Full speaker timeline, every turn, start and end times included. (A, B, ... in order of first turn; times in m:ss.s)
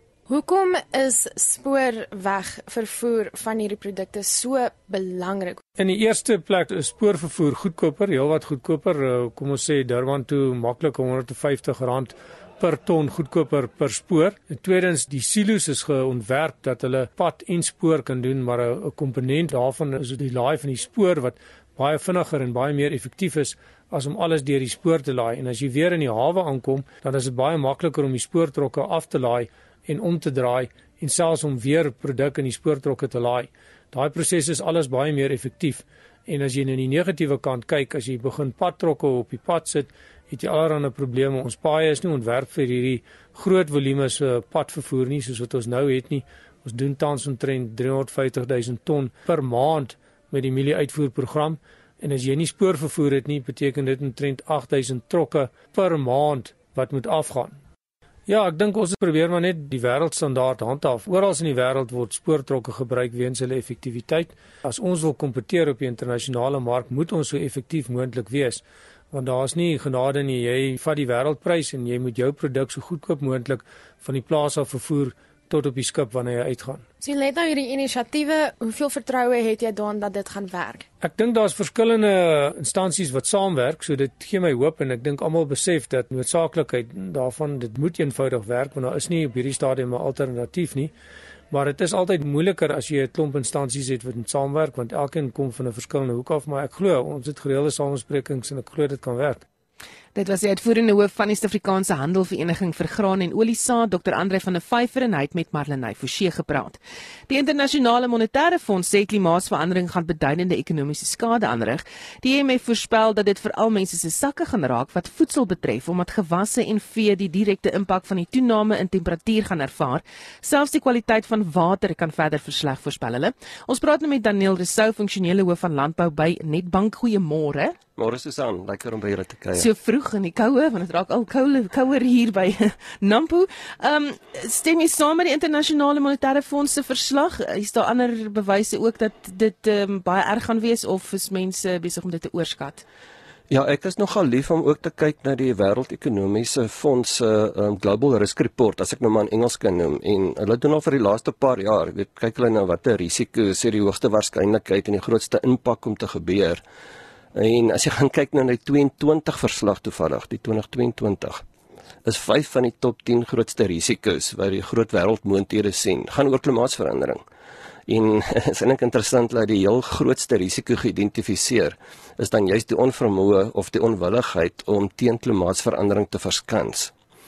0:00.3-0:05.6 A
0:05.8-0:57.6 B
0:58.3-1:16.9 B
1:17.0-1:20.8 A
1:21.0-1:30.9 B
1:31.5-1:39.4 B
1:40.1-2:07.7 C
2:08.0-2:09.7 D
2:09.5-2:22.8 C
2:23.5-2:36.6 D
2:37.3-2:41.4 D
2:42.0-2:47.2 D
2:47.9-2:56.9 D